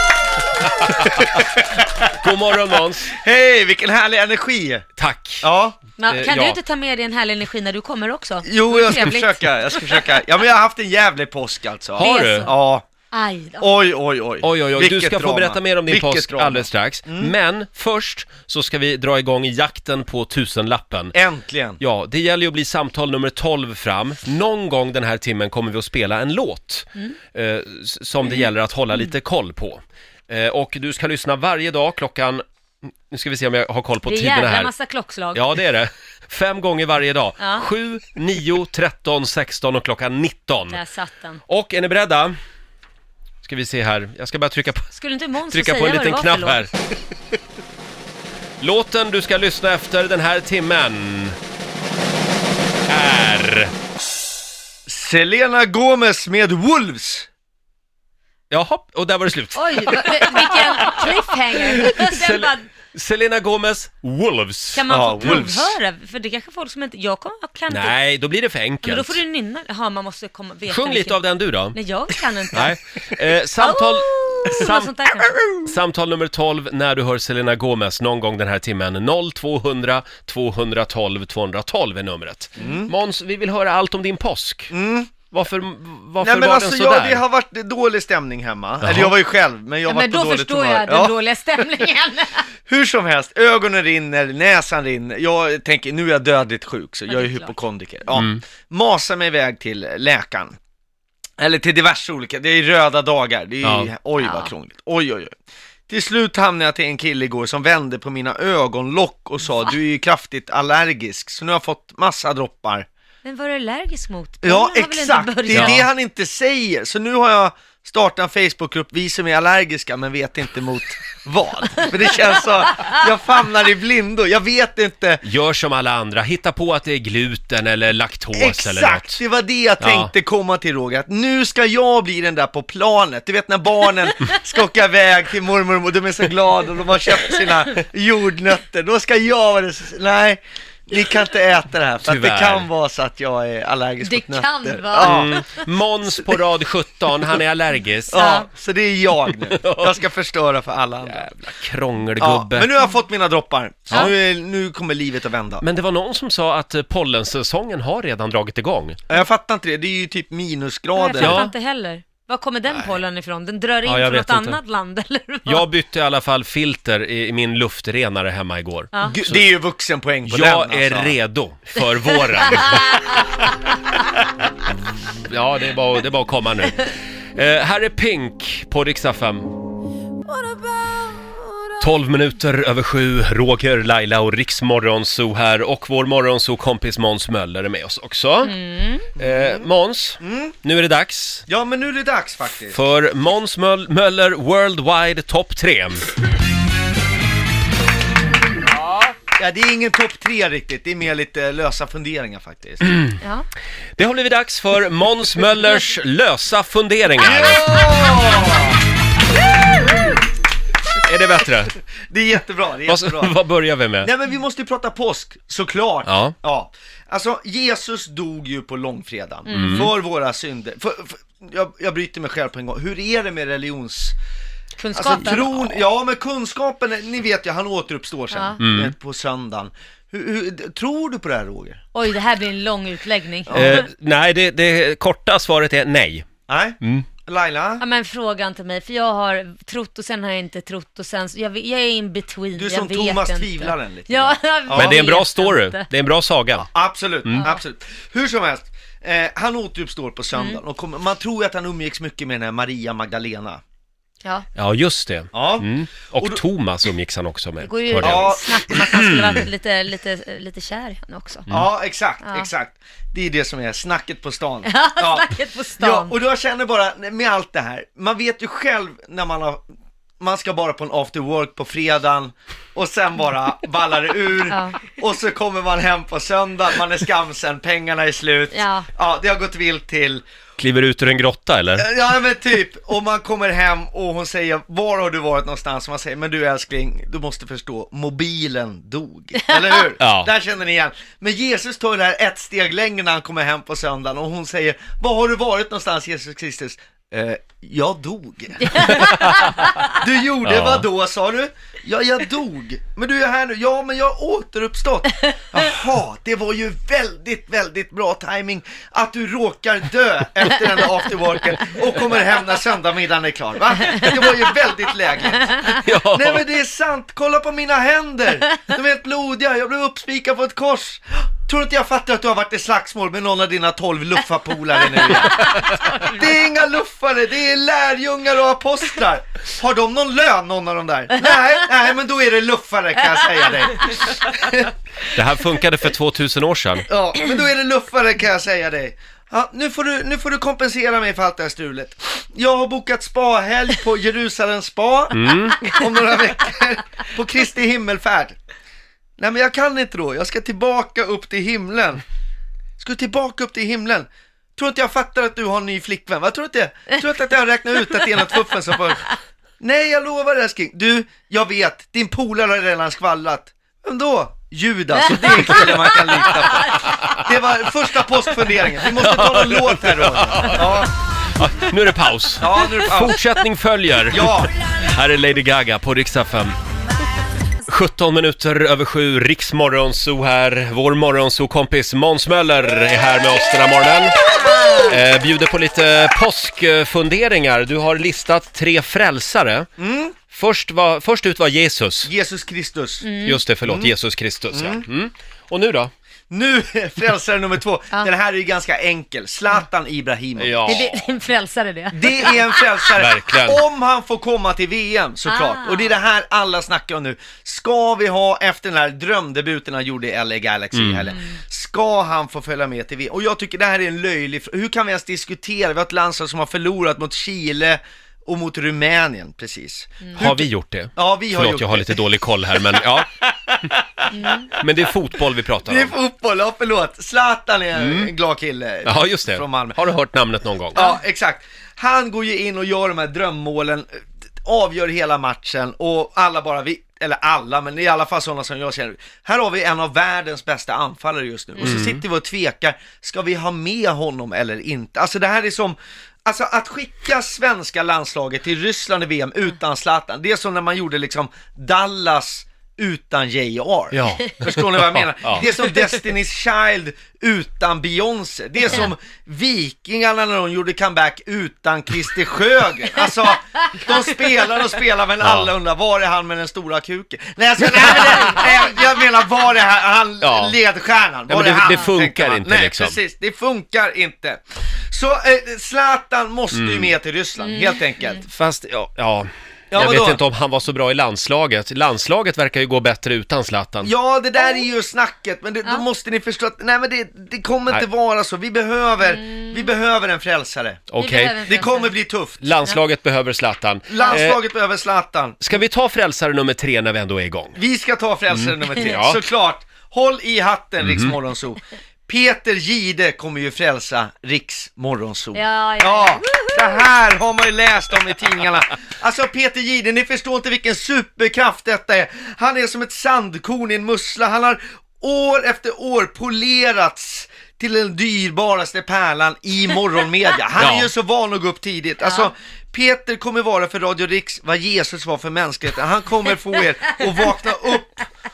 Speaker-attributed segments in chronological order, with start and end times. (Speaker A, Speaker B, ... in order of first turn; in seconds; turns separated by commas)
Speaker A: 0.8-2.0, Speaker B: 0.8-1.4, Speaker B: 2.1-3.1, Speaker A: 3.1-4.8, Speaker B: 5.0-5.5, Speaker A: 5.4-5.8, Speaker C: 6.0-10.2, Speaker B: 6.1-6.6, Speaker A: 8.4-12.8, Speaker B: 12.0-12.5, Speaker C: 12.0-12.5, Speaker C: 13.1-13.7, Speaker A: 13.6-17.3, Speaker B: 14.4-21.1, Speaker A: 21.1-21.8, Speaker B: 21.8-32.4, Speaker B: 33.1-34.7, Speaker C: 34.0-35.4, Speaker B: 35.3-40.8, Speaker C: 37.4-37.6, Speaker C: 40.7-41.4, Speaker B: 41.5-42.3, Speaker B: 43.4-44.9, Speaker C: 44.9-46.7, Speaker B: 45.5-46.7, Speaker B: 48.6-51.4, Speaker B: 52.9-53.7, Speaker A: 54.9-57.3, Speaker B: 58.5-61.1, Speaker C: 59.5-62.6, Speaker B: 61.6-65.5, Speaker C: 64.7-68.0, Speaker A: 64.9-65.7, Speaker B: 67.7-69.2, Speaker C: 68.8-72.7, Speaker B: 70.7-71.8, Speaker B: 72.5-74.9, Speaker C: 73.6-75.4, Speaker B: 75.5-84.7, Speaker A: 82.6-82.9, Speaker A: 84.7-85.1, Speaker B: 85.3-87.2, Speaker A: 86.2-91.1, Speaker B: 88.8-89.1, Speaker C: 89.9-92.5, Speaker A: 92.7-100.6, Speaker C: 97.1-97.6, Speaker B: 98.1-98.4, Speaker A: 101.4-105.3, Speaker B: 103.6-103.9, Speaker C: 104.2-104.5, Speaker A: 105.9-112.9, Speaker C: 113.2-115.8, Speaker A: 114.4-125.2, Speaker B: 115.5-115.9, Speaker B: 125.2-129.2, Speaker A: 128.3-145.3, Speaker B: 129.8-130.1, Speaker B: 142.0-142.7, Speaker C: 144.0-145.4, Speaker B: 145.0-148.4, Speaker C: 148.1-148.5, Speaker A: 148.1-151.3, Speaker B: 149.5-149.9, Speaker B: 151.0-152.7, Speaker A: 152.2-155.6, Speaker B: 155.6-159.0, Speaker A: 159.1-161.4, Speaker C: 160.9-165.7, Speaker B: 161.2-161.5, Speaker B: 163.8-164.6, Speaker B: 165.4-169.4, Speaker A: 169.0-171.2, Speaker B: 170.2-173.5, Speaker C: 172.4-173.2, Speaker B: 175.1-179.5, Speaker C: 180.3-181.7, Speaker B: 181.8-188.5, Speaker C: 188.4-189.1, Speaker B: 189.1-191.4, Speaker A: 189.2-189.7, Speaker A: 190.2-190.5, Speaker A: 191.5-192.8, Speaker B: 192.7-196.0, Speaker A: 199.3-202.9, Speaker C: 203.2-203.4, Speaker B: 204.0-207.6, Speaker A: 207.2-208.8, Speaker B: 211.0-211.8, Speaker A: 212.1-213.3, Speaker B: 212.9-214.1, Speaker A: 214.0-224.2, Speaker B: 216.1-216.3, Speaker C: 219.5-219.9, Speaker B: 219.5-219.9, Speaker C: 224.8-225.4, Speaker A: 224.9-231.8, Speaker B: 225.1-225.6, Speaker C: 228.3-228.6, Speaker B: 228.6-228.9, Speaker C: 231.9-233.8, Speaker A: 233.5-233.8, Speaker B: 233.5-236.3, Speaker A: 236.5-237.8, Speaker B: 236.8-237.1, Speaker C: 237.8-245.9, Speaker A: 242.6-245.0, Speaker B: 244.7-246.7, Speaker A: 246.6-253.6, Speaker C: 247.3-247.6, Speaker C: 250.3-250.6, Speaker B: 254.6-259.4, Speaker A: 255.3-256.4, Speaker C: 257.6-261.5, Speaker A: 258.0-259.4, Speaker A: 261.5-269.6, Speaker C: 262.2-262.5, Speaker C: 264.6-266.1, Speaker A: 270.2-280.2, Speaker C: 274.5-274.8, Speaker C: 278.5-278.9, Speaker B: 280.6-281.9, Speaker A: 281.8-299.1, Speaker B: 290.0-290.3, Speaker C: 298.6-299.9, Speaker A: 300.0-315.5, Speaker B: 300.4-300.9, Speaker C: 313.8-314.2, Speaker C: 315.4-315.8, Speaker B: 315.7-316.4, Speaker A: 316.1-334.7, Speaker C: 324.8-326.2, Speaker B: 335.1-336.9, Speaker A: 336.9-348.4, Speaker B: 345.1-345.6, Speaker A: 349.2-352.0, Speaker A: 352.8-370.9, Speaker C: 365.0-366.9, Speaker B: 368.9-376.5, Speaker A: 372.4-373.2, Speaker A: 374.1-374.5, Speaker B: 377.6-384.2, Speaker C: 384.5-384.9, Speaker B: 384.7-389.7, Speaker A: 389.8-390.1, Speaker B: 390.3-392.1, Speaker A: 392.0-393.1, Speaker C: 393.0-393.4, Speaker B: 393.2-395.9, Speaker A: 393.6-393.9, Speaker A: 394.5-394.9, Speaker A: 396.3-400.9, Speaker B: 400.4-400.9, Speaker C: 400.6-402.9, Speaker A: 401.9-422.0, Speaker B: 403.0-403.6, Speaker C: 405.2-406.0, Speaker B: 410.7-411.1, Speaker C: 411.0-411.4, Speaker B: 420.2-423.1, Speaker A: 422.7-424.6, Speaker C: 424.1-424.5, Speaker B: 424.5-425.9, Speaker A: 425.6-429.8, Speaker B: 427.7-428.1, Speaker B: 428.8-430.9, Speaker A: 430.7-478.2, Speaker B: 441.6-442.0, Speaker B: 453.9-455.5, Speaker B: 465.2-465.5, Speaker B: 470.2-470.6, Speaker B: 471.3-473.0, Speaker B: 476.5-476.9, Speaker C: 477.4-478.2, Speaker B: 478.2-483.9, Speaker A: 479.7-480.2, Speaker A: 483.8-490.9, Speaker C: 489.0-489.7, Speaker B: 490.9-491.4, Speaker C: 491.0-491.9, Speaker A: 491.4-492.5, Speaker B: 492.4-494.4, Speaker A: 493.9-495.6, Speaker C: 493.9-494.2, Speaker B: 495.4-497.6, Speaker A: 497.6-528.0, Speaker B: 498.3-499.2, Speaker C: 498.7-499.0, Speaker B: 500.8-501.1, Speaker C: 505.3-506.9, Speaker B: 520.6-520.9, Speaker C: 522.0-522.3